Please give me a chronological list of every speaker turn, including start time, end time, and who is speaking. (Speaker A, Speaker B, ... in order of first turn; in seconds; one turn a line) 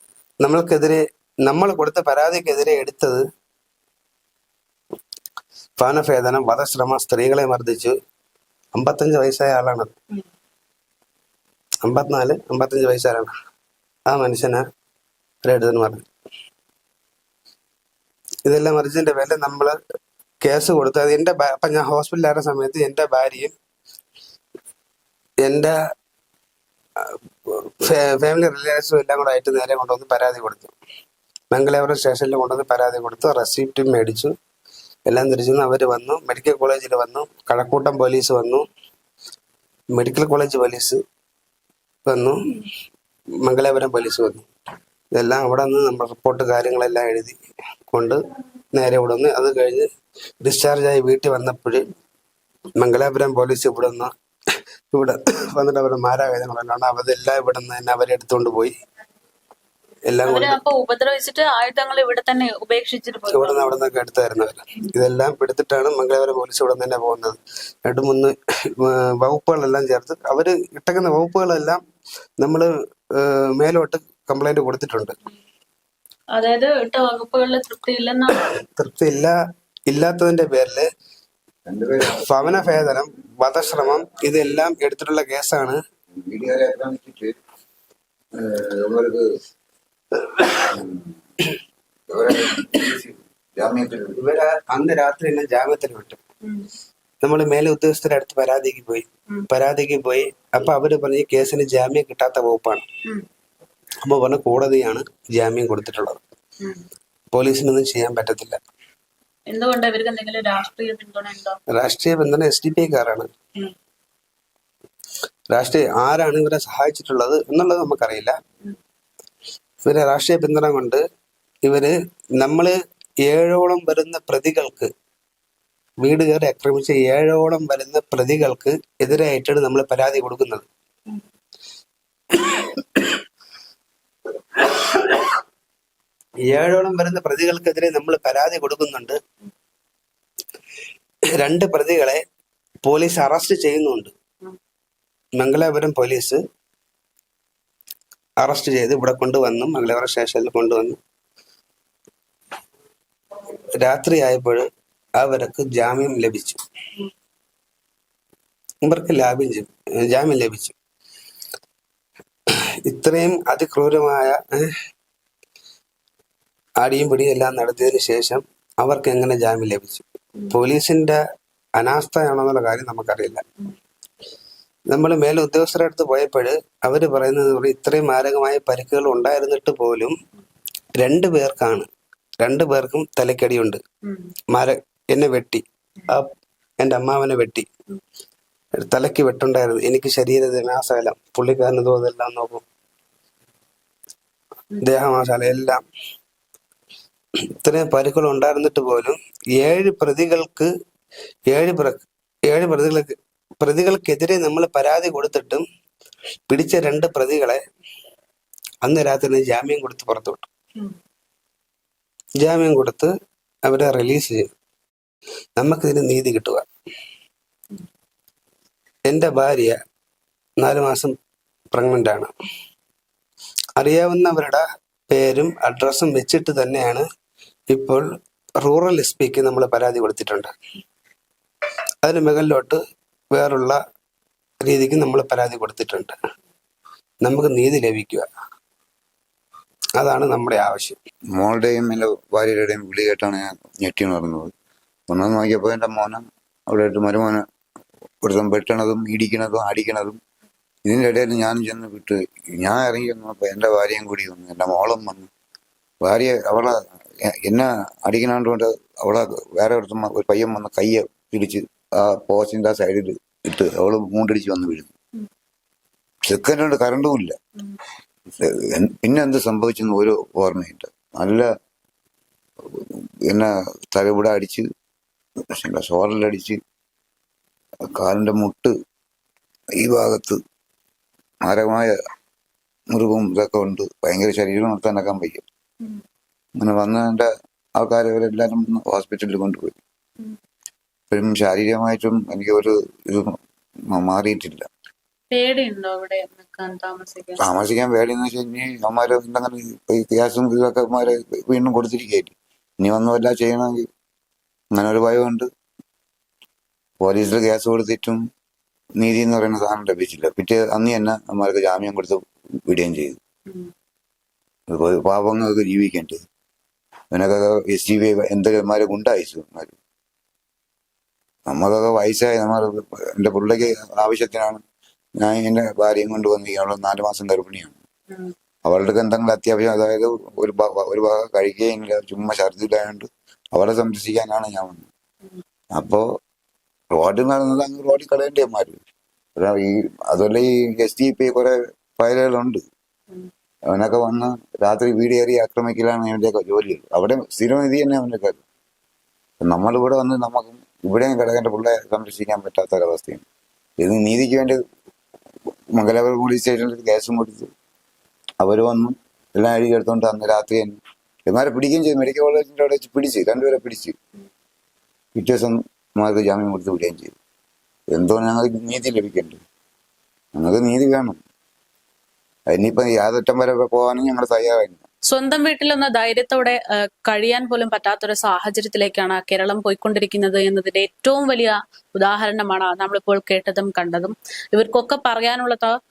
Speaker A: 0.4-3.2
Speaker A: 5.8-8.0
Speaker A: 8.8-9.9
Speaker A: 11.8-13.3
Speaker A: 14.1-14.7
Speaker A: 15.4-16.1
Speaker A: 18.4-19.8
Speaker A: 20.4-23.5
Speaker A: 25.4-25.8
Speaker A: 27.0-30.7
Speaker A: 31.5-34.4
Speaker A: 35.1-38.7
Speaker A: 39.9-41.0
Speaker A: 42.0-42.4
Speaker A: 43.4-44.5
Speaker A: 45.1-47.4
Speaker A: 47.9-48.2
Speaker A: 48.7-49.9
Speaker A: 50.4-51.9
Speaker A: 52.8-54.1
Speaker A: 54.9-58.7
Speaker A: 60.1-60.6
Speaker B: 60.3-63.7
Speaker A: 63.3-71.8
Speaker A: 72.4-75.2
Speaker B: 76.3-78.5
Speaker A: 78.6-79.4
Speaker A: 79.9-80.9
Speaker C: 81.7-82.4
Speaker A: 82.1-85.8
Speaker C: 86.1-87.3
Speaker C: 88.3-89.3
Speaker C: 90.5-91.1
Speaker C: 92.1-94.2
Speaker A: 94.2-96.2
Speaker A: 97.2-102.9
Speaker A: 104.0-106.2
Speaker A: 107.3-108.6
Speaker B: 109.5-111.6
Speaker A: 111.7-113.3
Speaker A: 115.5-118.4
Speaker A: 119.8-121.0
Speaker A: 121.6-124.9
Speaker A: 126.0-130.7
Speaker A: 132.3-133.2
Speaker A: 134.6-135.3
Speaker A: 136.5-139.2
Speaker A: 141.4-142.2
Speaker A: 142.8-144.1
Speaker A: 145.4-146.4
Speaker A: 148.4-151.0
Speaker A: 153.8-154.7
Speaker A: 155.2-156.6
Speaker A: 158.8-160.8
Speaker A: 162.8-164.7
Speaker A: 166.8-171.2
Speaker A: 171.8-173.4
Speaker A: 174.9-180.1
Speaker A: 181.0-181.9
Speaker A: 182.4-183.8
Speaker B: 184.0-184.3
Speaker A: 184.5-187.7
Speaker A: 188.8-192.6
Speaker A: 194.8-195.8
Speaker A: 197.6-200.7
Speaker A: 201.5-205.6
Speaker A: 206.5-207.6
Speaker A: 208.8-210.5
Speaker A: 212.4-213.1
Speaker A: 213.7-214.5
Speaker A: 215.6-216.7
Speaker A: 219.1-219.8
Speaker A: 220.6-221.2
Speaker A: 221.7-222.3
Speaker A: 223.8-227.1
Speaker A: 227.7-228.1
Speaker A: 228.6-230.5
Speaker A: 232.0-232.8
Speaker A: 233.3-233.8
Speaker A: 234.6-236.1
Speaker A: 237.2-238.3
Speaker A: 240.0-241.0
Speaker C: 241.3-244.5
Speaker C: 245.1-247.4
Speaker C: 248.2-250.2
Speaker C: 250.8-255.3
Speaker C: 256.0-264.9
Speaker C: 266.2-267.4
Speaker C: 268.4-271.5
Speaker C: 272.7-274.7
Speaker C: 275.5-276.6
Speaker C: 277.9-278.7
Speaker C: 279.8-280.4
Speaker C: 281.4-281.9
Speaker C: 282.9-285.4
Speaker C: 286.6-289.8
Speaker C: 291.1-293.4
Speaker C: 293.9-294.7
Speaker B: 295.3-297.4
Speaker C: 297.4-303.9
Speaker C: 304.7-305.5
Speaker C: 307.0-308.2
Speaker C: 309.0-313.2
Speaker B: 313.5-313.7
Speaker C: 314.7-316.2
Speaker C: 317.1-319.8
Speaker C: 321.5-324.6
Speaker C: 325.2-327.8
Speaker C: 328.7-334.9
Speaker C: 335.8-336.1
Speaker C: 336.9-338.8
Speaker C: 339.4-342.6
Speaker C: 343.7-348.4
Speaker C: 349.4-353.2
Speaker C: 353.8-354.6
Speaker C: 355.7-357.5
Speaker C: 358.4-364.0
Speaker C: 365.1-367.1
Speaker C: 367.9-369.4
Speaker C: 370.4-371.2
Speaker C: 372.5-374.8
Speaker B: 375.1-385.8